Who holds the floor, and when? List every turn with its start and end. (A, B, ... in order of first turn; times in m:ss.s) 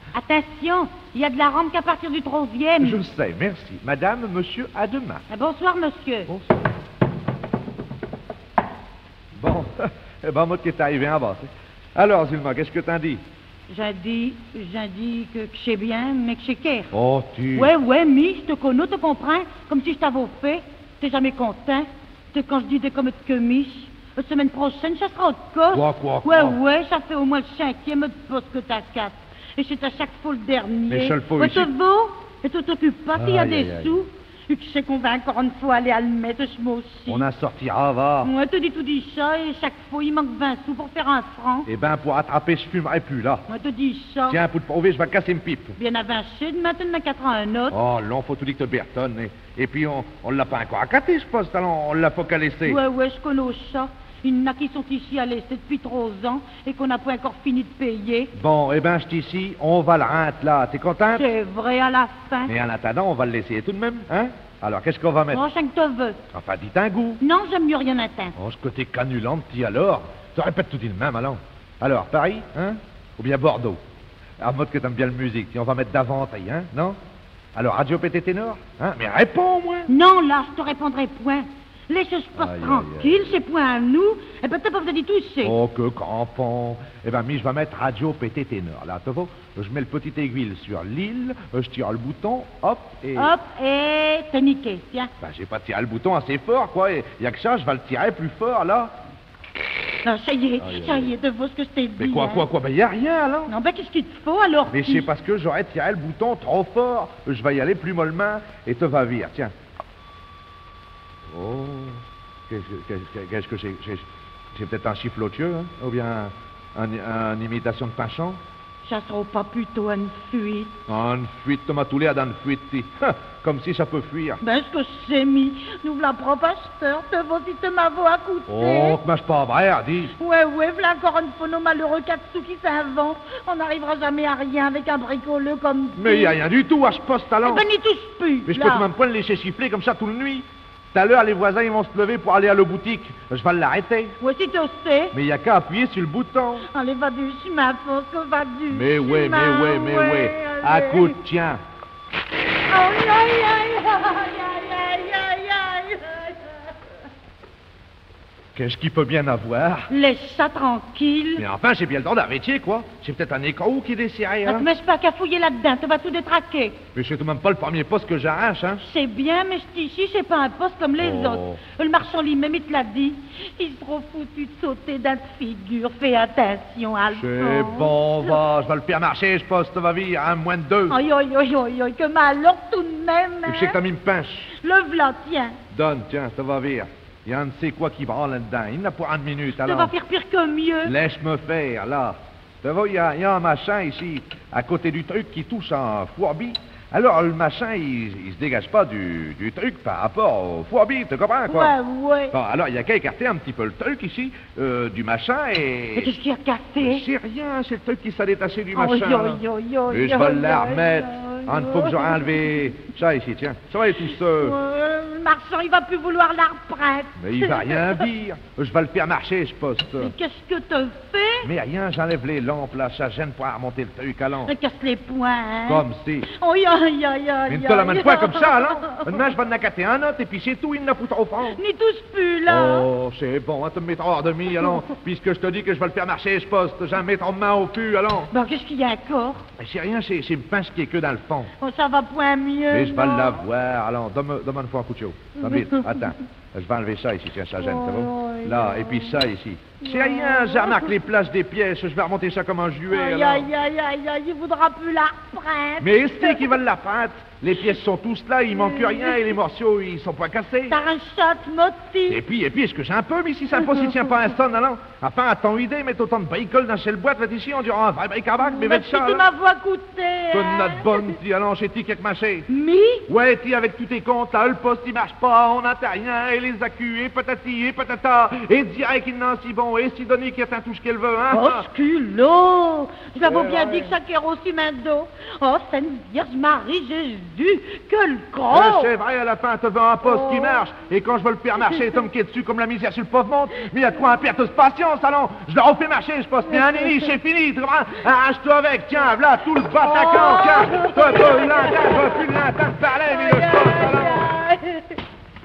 0:00.1-0:03.0 A
0:02.8-0:05.2 B
0:05.3-0:06.3 A
0:06.3-0:06.6 B
0:09.4-0:13.2 B
0:13.7-0:16.9 A
0:16.9-0:17.7 B
0:17.5-0:37.3 A
0:25.7-0:26.6 B
0:30.9-0:31.7 B
0:33.2-0:34.0 B
0:37.1-0:38.3 B
0:38.2-0:41.7 A
0:41.7-0:43.4 B
0:43.5-0:44.4 A
0:44.3-0:45.8 B
0:45.8-0:47.8 A
0:47.7-0:52.8 B
0:52.6-0:58.3 A
0:58.3-1:01.3 B
1:01.1-1:02.5 A
1:02.5-1:05.4 B
1:05.3-1:06.2 A
1:06.3-1:07.2 B
1:07.2-1:08.4 A
1:08.4-1:13.8 B
1:14.4-1:17.0 B
1:17.6-1:19.9 B
1:19.9-1:25.6 A
1:22.4-1:23.4 B
1:25.4-1:33.3 B
1:33.2-1:35.1 A
1:35.2-1:38.9 B
1:40.0-1:42.5 A
1:40.6-1:41.1 B
1:42.0-1:43.5 B
1:43.5-1:45.1 A
1:44.7-1:49.5 B
1:51.3-1:58.4 B
1:58.8-2:00.8 A
2:00.9-2:04.4 B
2:04.4-2:09.0 A
2:08.5-2:10.1 B
2:10.2-2:16.4 A
2:16.0-2:17.6 B
2:17.4-2:18.9 A
2:18.5-2:24.2 B
2:24.2-2:25.2 A
2:25.1-2:26.7 B
2:26.7-2:31.2 A
2:28.7-2:31.6 B
2:32.7-2:36.7 A
2:38.6-2:39.9 B
2:39.9-2:41.4 A
2:41.4-2:44.7 B
2:44.5-2:46.8 A
2:46.9-2:48.8 B
2:48.8-2:58.4 A
2:51.0-2:51.6 B
2:57.1-3:01.0 B
3:00.9-3:03.8 A
3:03.5-3:04.5 B
3:04.5-3:05.6 A
3:05.7-3:09.9 B
3:09.5-3:10.9 A
3:10.8-3:21.8 B
3:21.5-3:22.4 A
3:22.3-3:26.1 B
3:26.0-3:27.1 A
3:26.8-3:34.6 B
3:28.8-3:32.7 A
3:33.9-3:38.1 A
3:37.2-3:40.1 B
3:39.9-3:41.5 A
3:41.4-3:44.5 B
3:44.4-3:49.3 A
3:45.7-3:46.3 B
3:47.5-3:51.6 B
3:51.5-3:52.9 A
3:52.5-3:58.3 B
3:58.3-3:59.4 A
3:59.6-4:01.5 B
4:01.6-4:03.4 A
4:02.7-4:13.5 B
4:05.4-4:06.1 A
4:07.6-4:09.2 A
4:09.8-4:11.0 A
4:12.9-4:16.6 A
4:15.8-4:20.8 B
4:18.6-4:19.4 A
4:20.7-4:22.2 A
4:22.1-4:29.2 B
4:28.4-4:31.2 A
4:30.3-4:32.5 B
4:32.5-4:33.1 A
4:33.1-4:41.7 B
4:41.3-4:48.9 A
4:43.2-4:43.9 B
4:48.5-5:04.3 B
4:50.0-4:50.6 A
4:56.5-4:57.1 A
4:59.8-5:02.2 A
5:02.9-5:05.0 A